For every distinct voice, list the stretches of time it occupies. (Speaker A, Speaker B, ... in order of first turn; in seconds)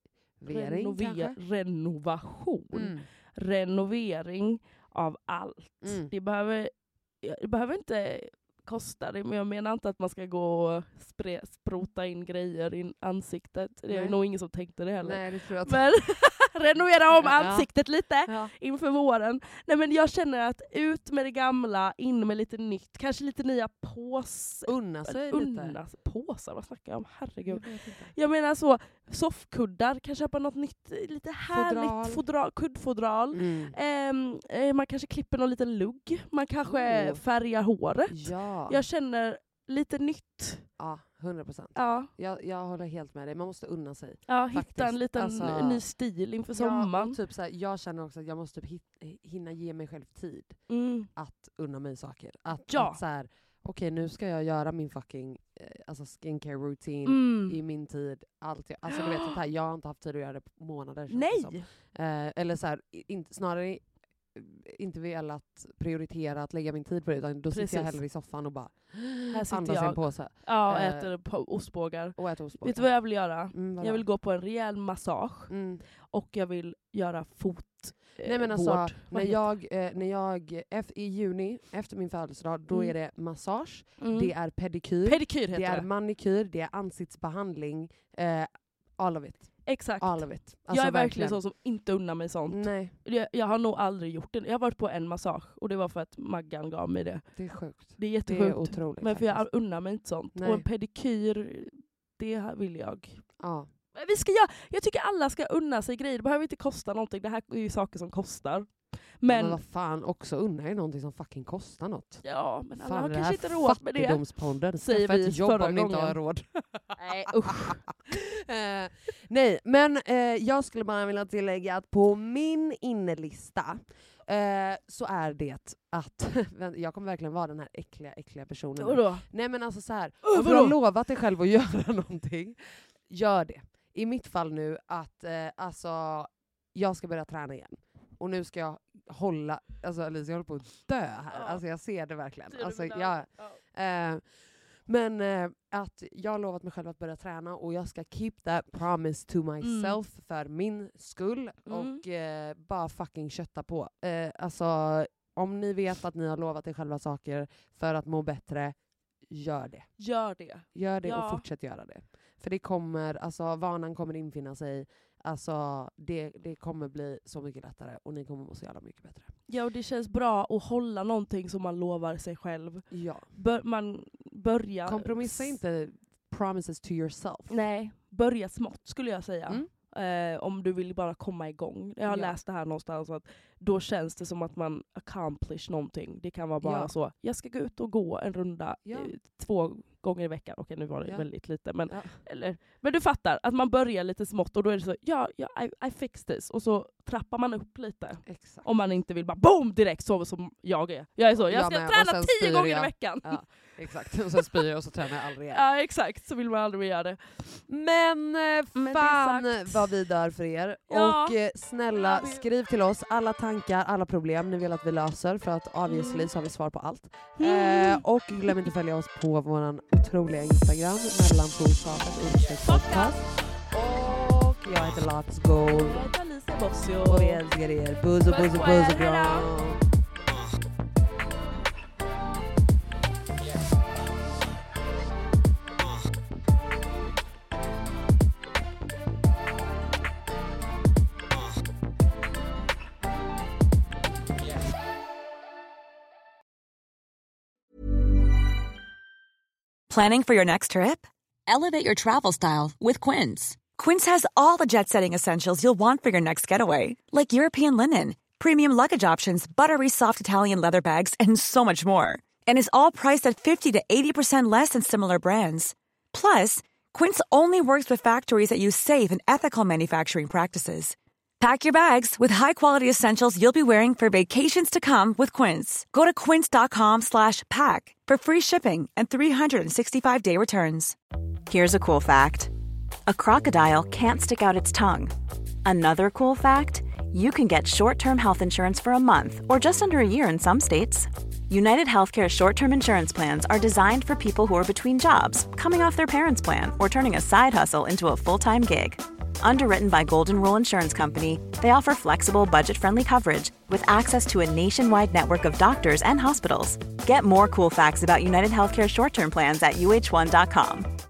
Speaker A: 0.4-1.4, 2.7-3.0, 5.8-6.1, 13.9-14.2, 15.0-15.8, 17.1-17.7, 18.3-18.5, 24.6-25.8, 27.5-28.1, 31.5-32.2, 33.3-33.7, 36.6-37.2, 38.1-38.8, 40.8-45.8, 46.5-50.6, 51.1-71.1, 72.2-74.1, 75.5-75.8, 78.2-91.4, 92.5-92.9, 97.3-99.5, 100.3-100.7, 103.4-103.7, 109.3-112.2, 112.8-158.8, 159.3-160.0, 160.7-169.3, 172.9-173.3, 174.8-177.6, 182.0-182.4, 186.6-186.9, 188.8-189.1, 191.9-192.2, 198.2-198.7, 201.4-205.6, 207.7-226.0, 227.0-229.8
Speaker B: 0.5-40.7, 41.7-42.1, 44.3-47.2, 50.7-51.1, 52.7-53.0, 57.0-57.6, 58.9-59.3, 61.1-61.7, 67.5-68.0, 69.3-79.4, 82.7-82.9, 84.0-84.3, 85.0-85.9, 89.6-103.2, 103.9-109.6, 112.2-114.2, 114.8-116.2, 117.0-118.0, 128.8-129.3, 130.2-130.7, 141.3-141.6, 142.5-143.6, 149.6-150.0, 151.7-152.0, 160.0-161.4, 169.5-175.6, 177.5-203.4, 204.3-204.6, 205.5-207.2, 208.7-209.9, 210.9-211.4, 211.9-212.4, 215.8-216.3, 217.3-218.0, 222.7-223.2, 225.7-227.4, 228.2-229.5
Speaker C: 249.9-280.9
Speaker D: 281.5-282.5, 283.1-285.1, 285.6-310.9